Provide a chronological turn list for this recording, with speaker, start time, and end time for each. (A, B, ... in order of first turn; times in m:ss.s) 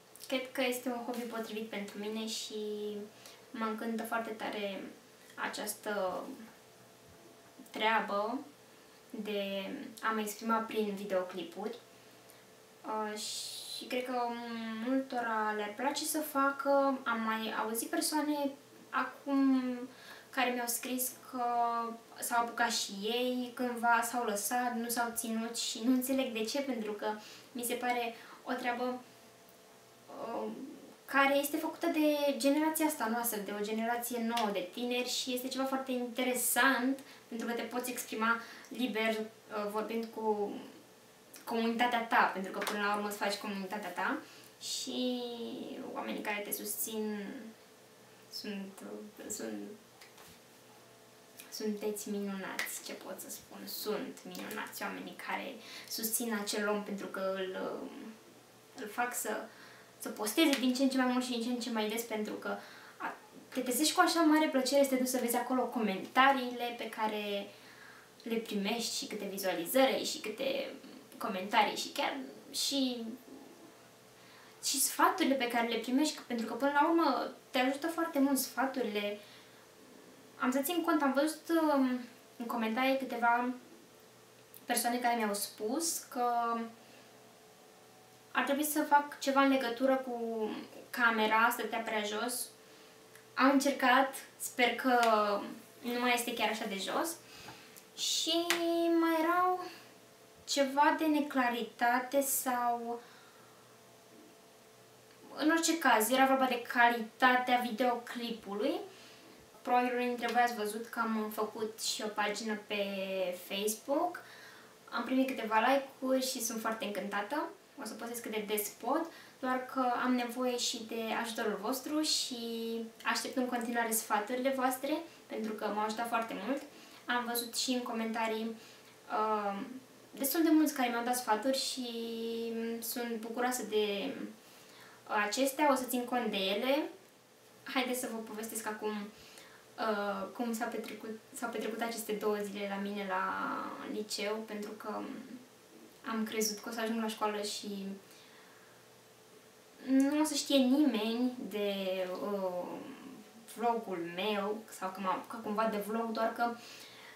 0:00.3-0:06.4 A
0:07.7-0:08.4 A
0:09.1-0:11.8 A
0:12.8-0:29.0 A
0:30.1-0:40.7 A
0:41.5-0:47.5 A
0:48.3-0:49.8 A
0:51.5-0:58.1 A
0:58.8-0:59.5 A
1:00.0-1:07.5 A
1:08.2-1:13.4 A
1:14.6-1:19.2 A
1:20.4-1:23.6 A
1:24.7-1:26.7 A
1:28.3-1:32.5 A
1:33.4-1:37.2 A
1:38.0-1:39.7 A
1:40.4-1:43.0 A
1:45.3-1:48.8 A
1:49.6-1:54.2 A
1:54.9-2:08.5 A
2:09.1-2:14.3 A
2:15.1-2:16.9 A
2:17.6-2:19.1 A
2:19.8-2:25.4 A
2:26.0-2:28.0 A
2:29.8-2:36.5 A